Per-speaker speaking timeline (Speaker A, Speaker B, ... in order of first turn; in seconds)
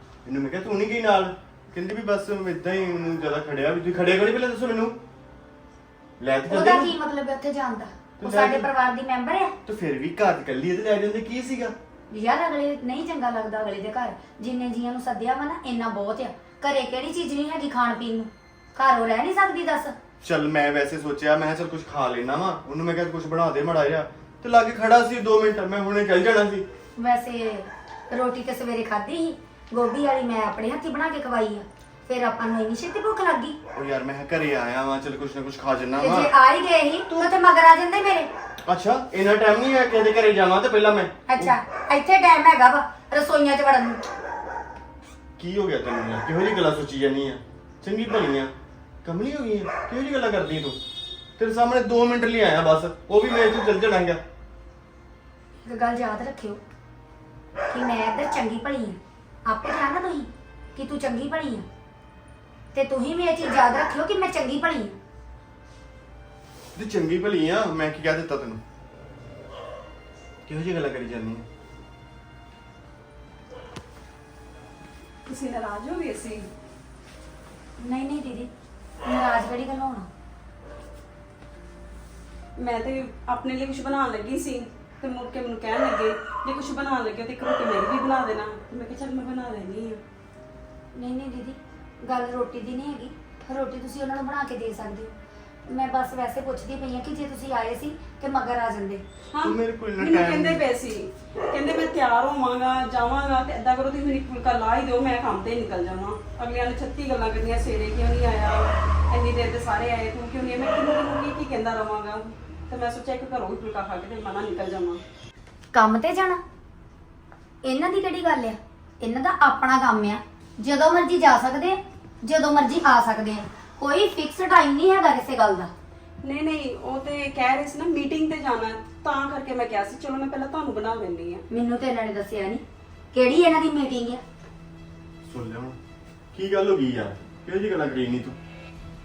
Speaker A: 0.2-5.0, 6.2-7.0, 8.2-8.7, 9.7-11.7, 20.2-26.6, 33.7-36.3, 38.7-41.6, 45.4-48.5, 49.0-50.8, 51.4-54.2, 66.8-68.6, 70.5-71.5, 99.4-100.6, 135.2-135.8, 136.3-138.4
Speaker B: 6.5-9.5, 12.1-19.9, 27.0-33.6, 36.0-38.3, 41.3-44.0, 55.6-56.6, 57.7-61.7, 62.7-65.0, 77.8-78.5, 79.0-80.1, 91.0-95.1, 95.7-99.0, 115.7-116.4, 117.6-125.7, 131.5-134.2
Speaker C: 75.3-76.5, 82.6-90.0, 99.3-115.0, 126.2-131.4